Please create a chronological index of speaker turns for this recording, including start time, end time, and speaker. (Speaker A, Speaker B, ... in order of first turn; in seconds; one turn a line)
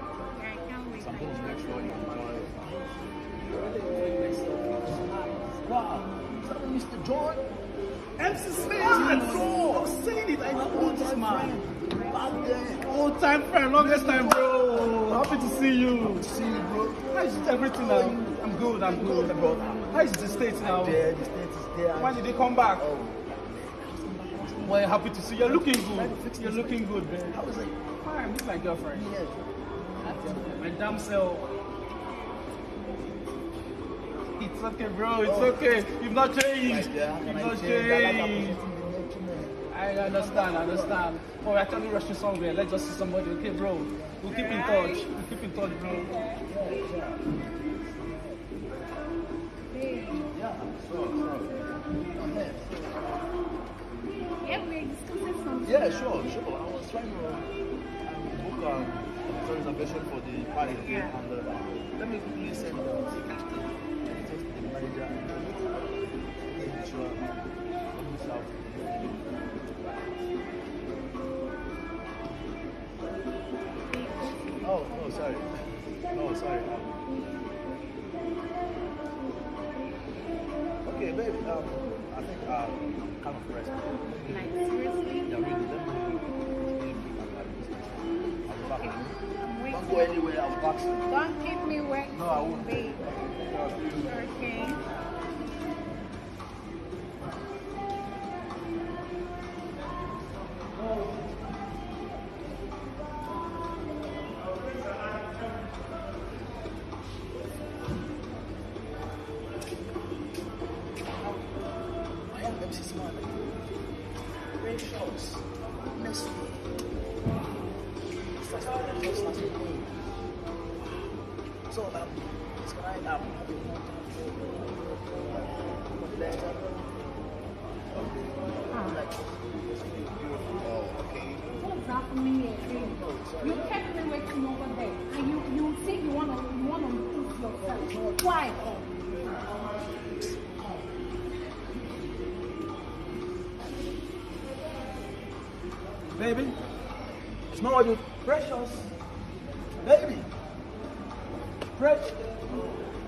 Speaker A: 0.3-2.1
Speaker B: 0.9-2.8
Speaker C: 2.0-2.6
Speaker C: 3.4-5.6
Speaker B: 5.6-7.5
Speaker C: 8.2-11.6
Speaker B: 8.7-13.0
Speaker A: 11.9-12.3
Speaker C: 12.8-16.3
Speaker B: 13.7-27.8
Speaker C: 17.1-21.1
Speaker C: 22.0-22.9
Speaker C: 24.6-27.4
Speaker C: 28.0-29.1
Speaker B: 28.9-31.0
Speaker C: 30.0-31.5
Speaker C: 34.4-38.6
Speaker B: 35.2-35.8
Speaker B: 36.6-41.0
Speaker C: 39.7-46.2
Speaker B: 43.9-44.3
Speaker A: 44.2-45.1
Speaker B: 45.2-45.5
Speaker A: 45.9-46.4
Speaker B: 46.4-48.4
Speaker A: 49.7-50.3
Speaker B: 50.3-53.1
Speaker A: 54.4-56.2
Speaker B: 55.6-57.5
Speaker B: 58.0-67.3
Speaker A: 60.6-61.1
Speaker B: 67.9-70.2
Speaker A: 73.8-75.5
Speaker B: 74.6-77.0
Speaker B: 80.8-84.6
Speaker A: 84.3-85.4
Speaker B: 85.2-91.2
Speaker A: 88.6-90.3
Speaker A: 91.0-93.0
Speaker B: 92.1-95.0
Speaker A: 94.0-94.8
Speaker B: 111.0-113.5
Speaker B: 114.6-116.7
Speaker B: 118.4-119.9
Speaker B: 121.7-127.0
Speaker B: 127.9-131.5
Speaker A: 128.7-129.0
Speaker A: 131.5-138.6
Speaker B: 132.6-133.9
Speaker B: 137.6-139.5
Speaker B: 146.1-146.6
Speaker B: 147.5-148.9
Speaker B: 149.8-150.3
Speaker B: 151.7-152.9